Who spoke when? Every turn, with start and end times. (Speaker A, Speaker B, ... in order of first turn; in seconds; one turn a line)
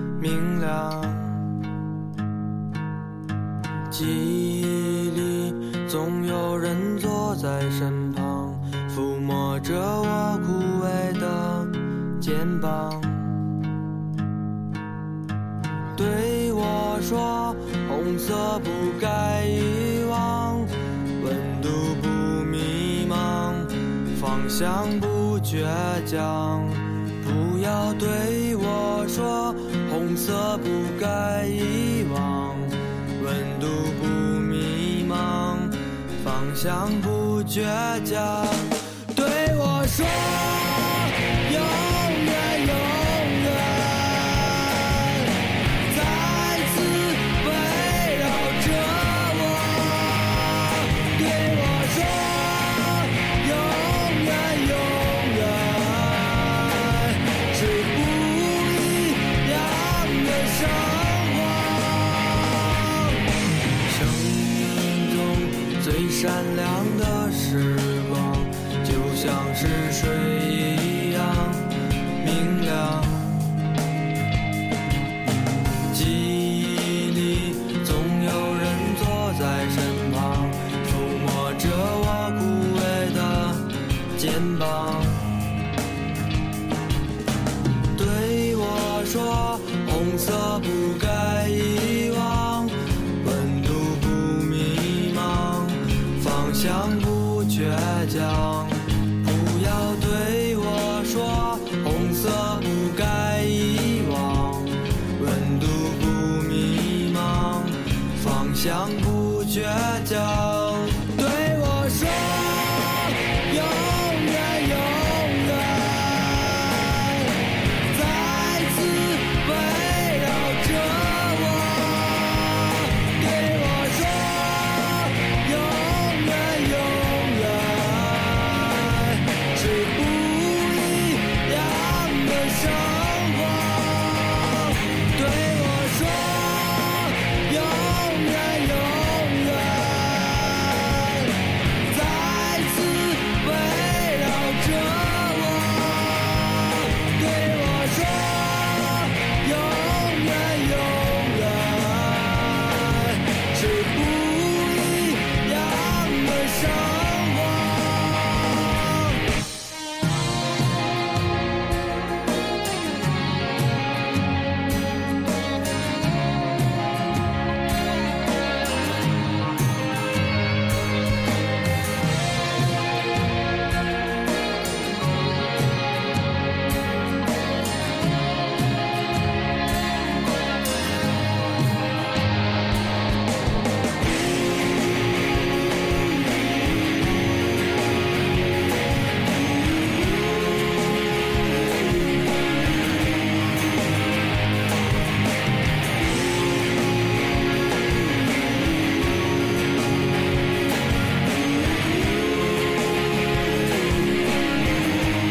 Speaker A: 0.2-1.5
Speaker A: 3.9-13.4
Speaker A: 15.9-45.3
Speaker A: 45.9-63.3
Speaker A: 63.8-73.5
Speaker A: 75.7-85.3
Speaker A: 88.0-159.3
Speaker A: 201.6-202.7